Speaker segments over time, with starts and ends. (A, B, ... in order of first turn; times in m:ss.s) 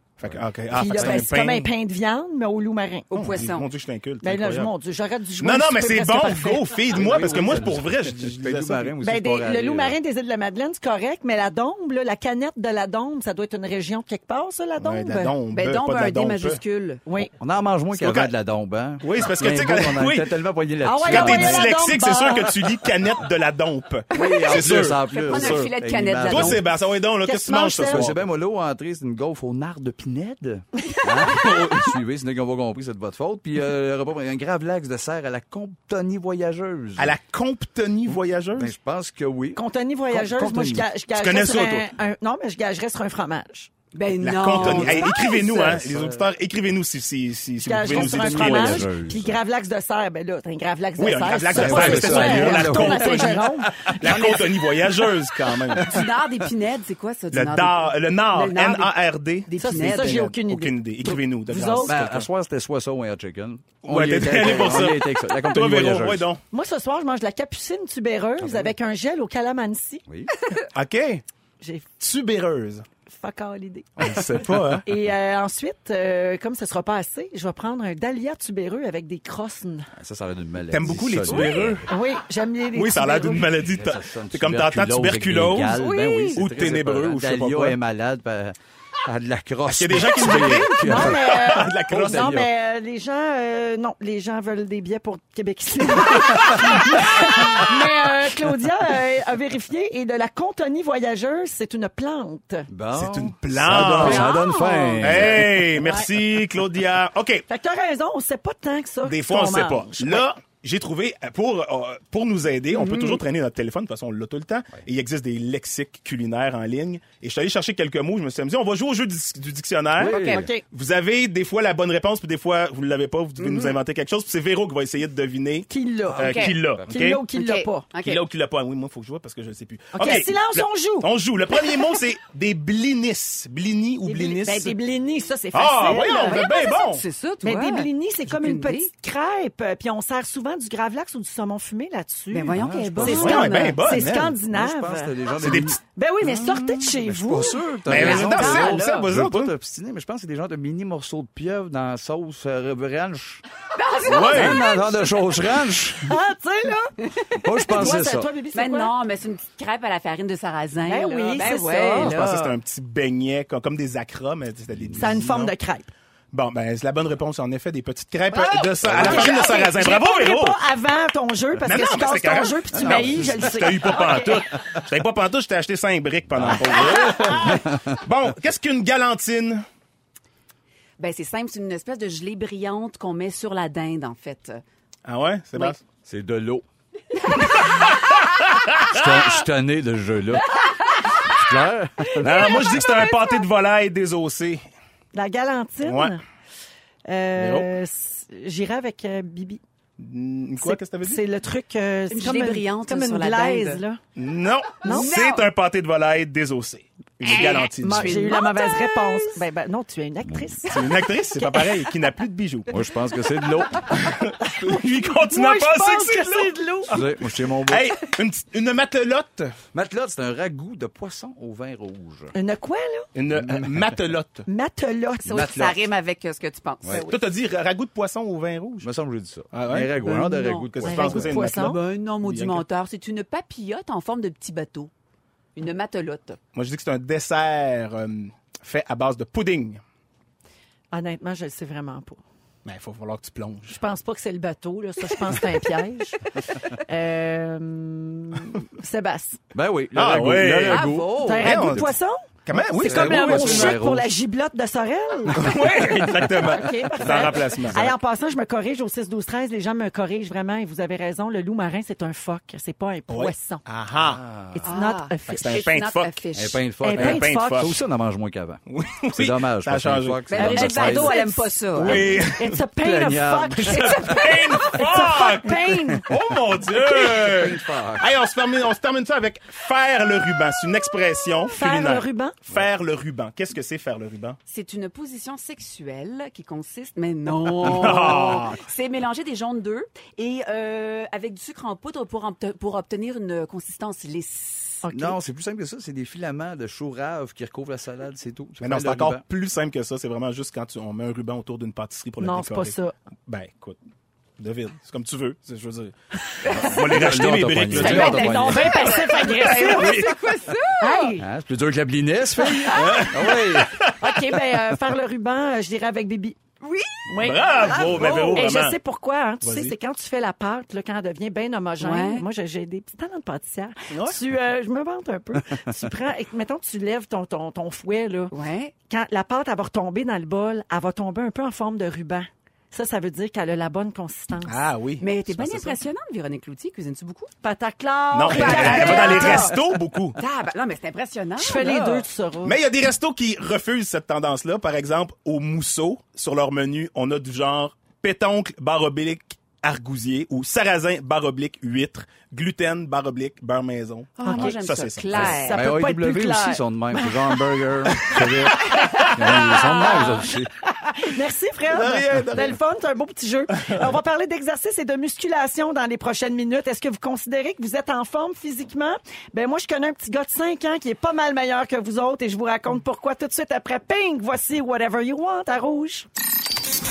0:00.2-0:01.7 A
0:00.2-0:01.2 B
0:00.7-0:03.1 C
0:03.1-0:03.7 D
0:03.1-0:04.7 A
0:04.2-0:06.9 C
0:05.4-0:09.0 A
0:06.9-0:10.0 B
0:09.0-0:15.4 C
0:14.8-0:16.6 A
0:15.5-0:17.0 D
0:17.1-0:17.3 C
0:17.4-0:21.8 B
0:17.9-0:18.3 A
0:19.0-0:20.4 A
0:20.8-0:22.6 C
0:21.0-0:25.7 A
0:24.1-0:26.6 B
0:24.1-0:26.6 D
0:26.2-0:28.2 A
0:27.2-0:28.1 C
0:27.8-0:37.2 B
0:37.0-0:38.7 A
0:38.6-0:40.9 B
0:39.6-0:43.7 C
0:41.1-0:41.9 A
0:43.9-0:45.8 D
0:44.2-0:48.9 A
0:44.5-0:46.3 B
0:47.6-0:54.3 C
0:47.8-0:49.4 B
0:51.0-0:56.1 A
0:51.6-0:54.4 B
0:54.1-0:54.4 D
0:55.7-0:56.1 B
0:55.8-0:58.9 D
0:57.3-1:02.3 A
0:59.5-1:00.3 D
0:59.6-1:02.0 C
1:01.8-1:06.3 B
1:03.8-1:06.4 A
1:06.5-1:10.0 C
1:08.4-1:08.7 B
1:10.1-1:10.3 B
1:10.7-1:11.2 A
1:11.6-1:11.9 C
1:12.0-1:12.9 A
1:13.1-1:19.9 C
1:14.0-1:14.9 A
1:20.0-1:21.9 B
1:20.7-1:21.9 A
1:21.9-1:23.5 C
1:22.7-1:25.8 A
1:23.7-1:32.5 B
1:25.7-1:26.4 D
1:26.4-1:27.8 A
1:29.7-1:32.4 A
1:30.2-1:42.7 C
1:42.7-1:45.7 B
1:42.9-1:44.3 A
1:43.8-1:45.5 D
1:45.0-1:47.5 A
1:45.8-1:46.1 C
1:47.5-1:50.2 C
1:49.0-2:07.2 A
1:52.7-1:53.2 D
2:00.0-2:00.5 B
2:00.0-2:00.5 D
2:00.1-2:00.6 C
2:03.4-2:03.8 D
2:05.7-2:07.9 C
2:06.2-2:06.6 D
2:07.3-2:08.2 D
2:08.0-2:14.8 A
2:09.9-2:11.1 C
2:14.0-2:16.5 C
2:15.5-2:17.0 A
2:15.9-2:18.9 D
2:17.4-2:25.1 C
2:22.3-2:23.8 D
2:22.5-2:25.8 B
2:23.0-2:24.4 A
2:25.4-2:25.8 A
2:25.9-2:27.6 C
2:26.4-2:26.8 A
2:27.0-2:33.4 B
2:27.9-2:29.5 A
2:27.9-2:29.1 D
2:33.8-2:35.3 D
2:34.0-2:34.7 A
2:34.0-2:36.1 B
2:36.0-2:38.9 C
2:37.4-2:38.3 B
2:37.7-2:38.0 D
2:38.5-2:42.6 D
2:40.8-2:42.2 C
2:42.0-2:45.5 A
2:44.9-2:45.9 C
2:46.3-2:50.6 A
2:48.5-2:54.5 C
2:48.8-2:49.2 B
2:49.2-2:49.5 D
2:51.6-2:59.6 A
2:52.8-2:53.5 B
2:56.4-2:58.0 B
3:01.0-3:04.6 D
3:05.1-3:05.8 A
3:06.0-3:06.6 B
3:07.2-3:07.8 D
3:08.6-3:09.2 A
3:08.8-3:10.6 B
3:10.6-3:11.2 D
3:11.2-3:12.7 B
3:12.2-3:14.6 A
3:12.4-3:13.2 D
3:15.1-3:16.2 C
3:15.8-3:16.1 A
3:17.1-3:19.6 C
3:17.4-3:17.7 A
3:20.0-3:21.2 A
3:20.6-3:24.0 C
3:22.1-3:23.8 D
3:24.2-3:28.4 A
3:24.8-3:25.1 C
3:24.9-3:25.5 D
3:27.2-3:29.4 D
3:27.8-3:31.0 C
3:30.3-3:30.6 B
3:30.6-3:32.8 A
3:32.7-3:34.0 B
3:33.9-3:39.6 A
3:34.4-3:37.0 C
3:36.9-3:38.0 B
3:39.7-3:42.3 B
3:42.3-3:43.1 C
3:43.2-3:44.5 A
3:43.3-3:44.0 B
3:44.5-3:45.7 C
3:45.3-3:45.8 B
3:45.3-3:47.2 D
3:46.9-3:48.9 A
3:48.8-3:51.3 B
3:49.5-3:50.0 A
3:50.0-3:54.9 D
3:50.7-3:52.6 A
3:50.8-3:51.8 C
3:55.6-3:56.4 D
3:56.5-3:59.8 A
4:00.9-4:02.2 C
4:02.6-4:03.8 A
4:03.7-4:09.4 C
4:09.5-4:12.0 B
4:09.9-4:13.8 A
4:10.7-4:11.6 D
4:11.2-4:23.6 C
4:12.7-4:14.1 B
4:15.3-4:17.9 A
4:23.1-4:24.2 A
4:24.0-4:24.7 B
4:24.6-4:25.7 C
4:24.6-4:26.6 D
4:25.3-4:26.2 A
4:26.3-4:28.6 B
4:26.8-4:27.7 C
4:26.9-4:27.8 A
4:28.7-4:30.7 A
4:29.1-4:31.2 B
4:30.3-4:32.1 D
4:30.4-4:36.1 C
4:31.7-4:32.6 A
4:32.8-4:34.6 B
4:33.6-4:44.4 A
4:36.9-4:38.1 B
4:41.5-4:42.4 C
4:44.5-4:54.8 D
4:47.6-4:48.6 A
4:54.8-4:55.2 C
4:54.9-4:59.2 B
4:58.6-5:02.7 A
5:02.2-5:02.9 C
5:03.3-5:03.8 A
5:04.4-5:08.5 A
5:06.4-5:07.0 D
5:06.5-5:08.9 B
5:07.7-5:11.2 D
5:07.8-5:10.1 C
5:09.2-5:10.4 A
5:10.8-5:11.3 C
5:11.2-5:13.8 B
5:12.4-5:13.1 C
5:12.7-5:14.1 A
5:13.9-5:28.3 C
5:16.6-5:17.0 D
5:17.2-5:18.8 A
5:17.5-5:18.6 D
5:19.4-5:19.8 A
5:21.8-5:22.2 D
5:23.9-5:24.2 A
5:28.3-5:28.7 D
5:28.9-5:34.6 C
5:34.5-5:35.8 A
5:35.0-5:37.3 D
5:37.4-5:39.6 C
5:38.1-5:40.2 A
5:38.3-5:39.6 D
5:40.2-5:42.1 D
5:41.4-5:42.6 C
5:42.4-5:55.4 A
5:54.2-5:55.6 D
5:54.2-5:54.5 C
5:55.1-5:59.1 C
5:55.1-6:00.5 B
5:58.1-6:00.0 A
5:59.7-6:16.1 C
6:01.7-6:02.6 A
6:03.6-6:03.9 A